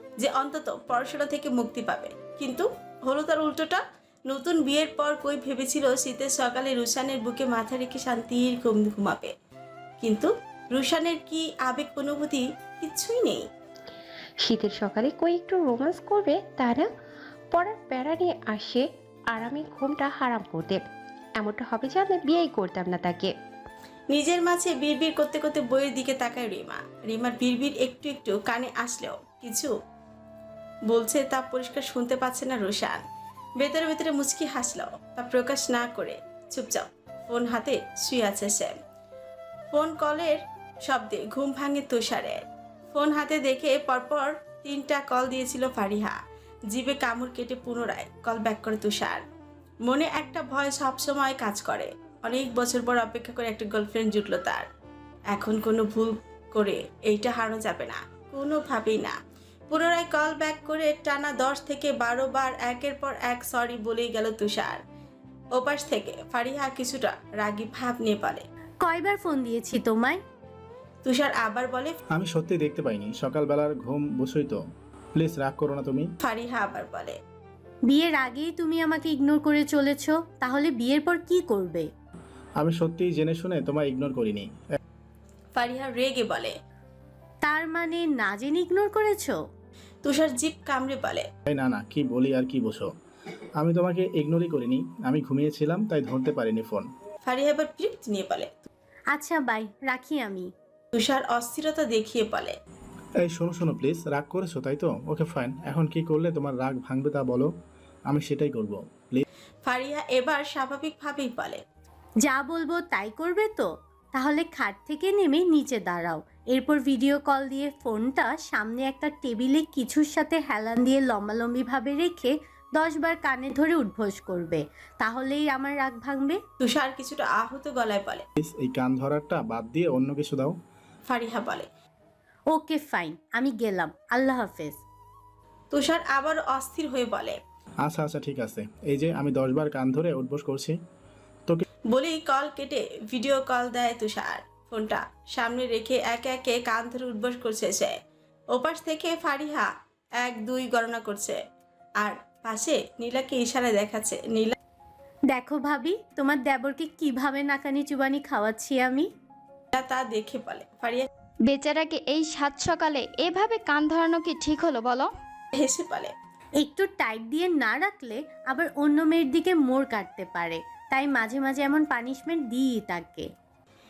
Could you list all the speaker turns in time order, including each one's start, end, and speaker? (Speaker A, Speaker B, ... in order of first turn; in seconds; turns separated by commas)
Speaker A: 0.2-9.3, Speaker A: 10.0-13.4, Speaker B: 14.4-16.9, Speaker B: 17.5-20.8, Speaker B: 21.4-23.3, Speaker A: 24.1-29.7, Speaker A: 30.9-33.0, Speaker A: 33.6-38.8, Speaker A: 39.7-46.2, Speaker A: 46.7-49.2, Speaker A: 49.8-54.7, Speaker A: 55.3-59.1, Speaker A: 59.7-64.8, Speaker A: 65.5-68.4, Speaker C: 68.8-70.2, Speaker A: 71.0-72.0, Speaker D: 72.1-74.6, Speaker D: 75.2-76.1, Speaker A: 76.2-77.2, Speaker C: 77.9-81.9, Speaker D: 82.6-84.5, Speaker A: 85.5-86.5, Speaker C: 87.4-89.4, Speaker A: 90.0-91.3, Speaker D: 91.5-92.9, Speaker D: 93.6-96.9, Speaker A: 97.2-98.7, Speaker C: 99.1-100.5, Speaker A: 100.9-102.5, Speaker D: 103.2-107.5, Speaker D: 108.1-109.2, Speaker A: 109.7-111.6, Speaker C: 112.2-126.4, Speaker A: 126.6-128.2, Speaker D: 128.4-130.6, Speaker A: 131.1-131.7, Speaker C: 132.5-134.8, Speaker A: 135.7-137.4, Speaker D: 137.8-140.8, Speaker A: 141.9-148.0, Speaker A: 148.5-151.4, Speaker A: 152.0-154.5, Speaker C: 155.3-159.1, Speaker A: 159.7-161.1, Speaker E: 161.5-165.1, Speaker A: 165.5-166.1, Speaker C: 166.6-173.3